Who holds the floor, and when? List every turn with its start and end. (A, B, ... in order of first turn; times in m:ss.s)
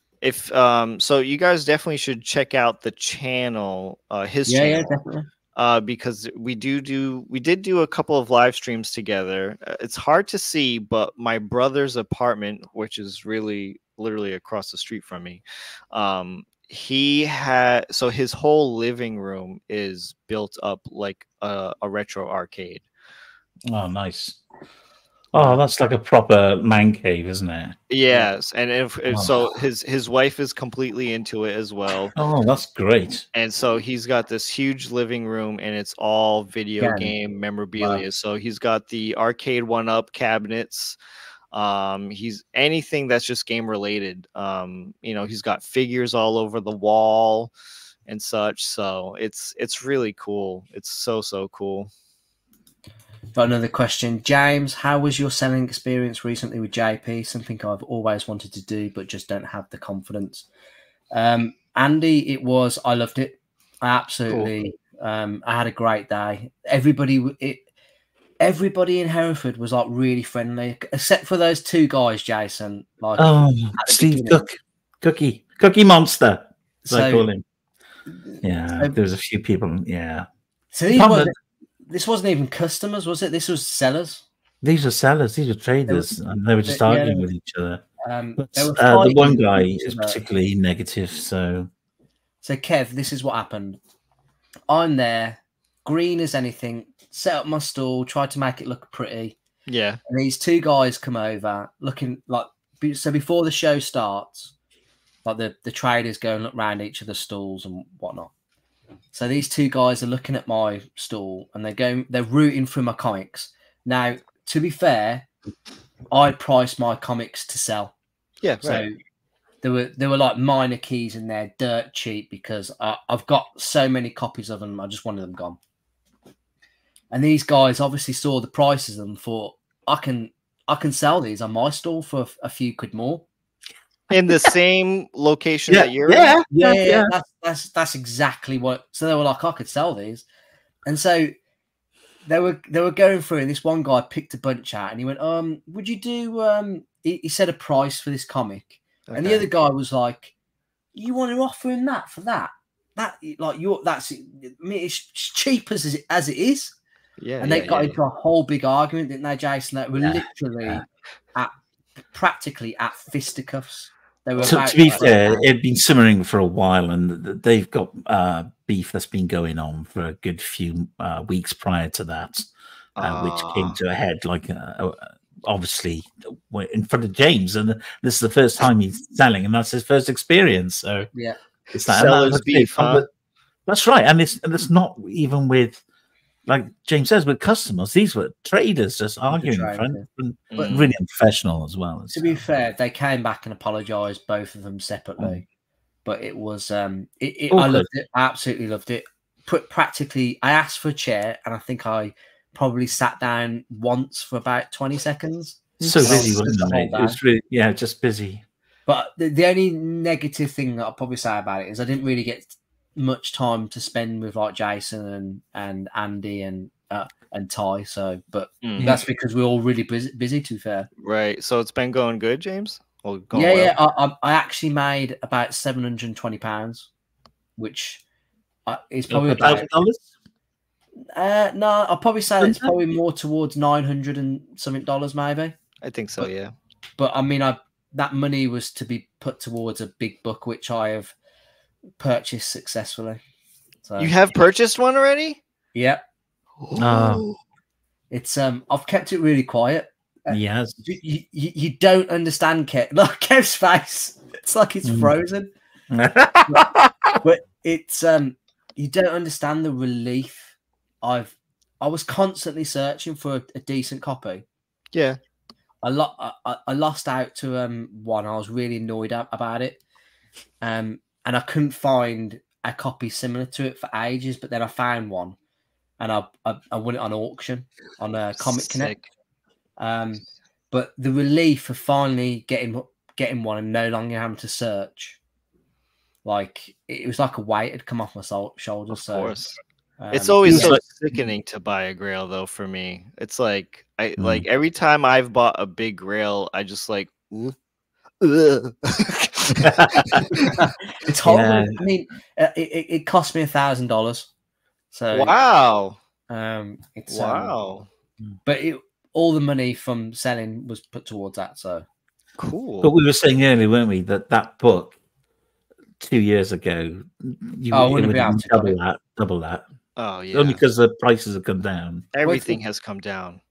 0:00.2-0:05.0 A
0:04.5-0:05.3 B
0:05.5-0:22.8 A
0:23.7-0:24.4 C
0:25.3-0:27.7 C
0:27.9-0:32.1 A
0:29.1-0:29.4 C
0:32.1-0:33.2 C
0:33.3-0:41.0 A
0:36.8-0:37.1 B
0:41.5-0:47.5 A
0:48.1-0:51.9 A
0:53.3-1:00.5 B
1:01.1-1:07.6 B
1:08.4-1:14.4 B
1:13.2-1:17.4 C
1:16.8-1:17.3 B
1:18.1-1:18.9 B
1:18.4-1:20.3 C
1:20.7-1:21.3 B
1:20.9-1:21.3 C
1:21.9-1:24.2 B
1:24.6-1:27.8 C
1:25.9-1:26.1 B
1:26.6-1:27.3 B
1:28.0-1:30.2 B
1:28.4-1:31.7 C
1:32.4-1:33.8 B
1:34.7-1:39.4 B
1:39.7-1:40.0 A
1:40.1-1:44.5 B
1:45.2-1:48.3 B
1:49.1-1:55.3 B
1:56.1-1:57.9 B
1:58.4-1:58.8 A
1:58.6-1:59.0 B
1:59.6-2:05.6 B
2:07.1-2:13.2 B
2:14.1-2:16.4 A
2:15.7-2:17.1 C
2:16.5-2:20.2 B
2:20.8-2:21.3 B
2:22.2-2:30.3 B
2:29.1-2:29.4 A
2:30.9-2:36.8 B
2:37.2-2:38.0 A
2:37.4-2:40.8 B
2:40.0-2:40.8 C
2:42.1-2:45.5 B
2:44.4-3:01.1 C
2:44.4-2:45.0 A
2:53.0-2:53.8 A
3:01.7-3:03.1 C
3:01.9-3:03.0 A
3:03.7-3:05.8 C
3:06.4-3:12.4 C
3:09.3-3:10.8 B
3:10.5-3:10.9 A
3:12.1-3:15.4 B
3:16.0-3:27.2 B
3:17.5-3:17.9 C
3:25.8-3:28.4 C
3:28.9-3:40.9 B
3:38.6-3:39.0 A
3:41.0-3:43.7 A
3:43.3-3:46.9 B
3:47.6-3:48.0 B
3:48.6-3:49.7 B
3:49.1-3:50.1 C
3:51.1-3:55.5 B
3:52.4-3:52.7 C
3:55.8-3:56.5 A
3:57.0-4:01.1 B
4:02.0-4:03.2 B
4:03.8-4:04.1 B
4:04.0-4:05.4 A
4:05.7-4:06.0 B
4:06.7-4:07.4 A
4:06.8-4:07.2 C
4:08.1-4:15.5 B
4:10.3-4:10.8 C
4:14.8-4:15.1 C
4:15.9-4:17.1 C
4:16.5-4:24.4 B
4:24.9-4:25.2 A
4:25.8-4:29.8 B
4:30.6-4:35.4 B
4:36.0-4:38.9 B
4:38.4-4:39.1 A
4:39.8-4:45.2 B
4:46.2-4:49.3 B
4:48.9-4:49.6 A
4:50.0-4:50.8 B
4:50.1-4:57.6 A
4:50.4-4:50.8 C
4:54.2-4:54.4 C
4:58.2-5:00.5 A
4:59.6-5:00.2 C
5:00.4-5:04.3 B
5:01.2-5:01.7 C
5:04.9-5:05.3 B
5:05.1-5:06.0 A
5:06.3-5:07.5 B
5:07.1-5:07.9 A
5:08.4-5:11.8 B
5:12.4-5:12.9 A
5:12.8-5:15.0 C
5:16.0-5:19.6 C
5:17.7-5:18.8 B
5:20.0-5:20.6 A
5:20.3-5:22.1 C
5:22.1-5:23.4 A
5:22.2-5:22.6 B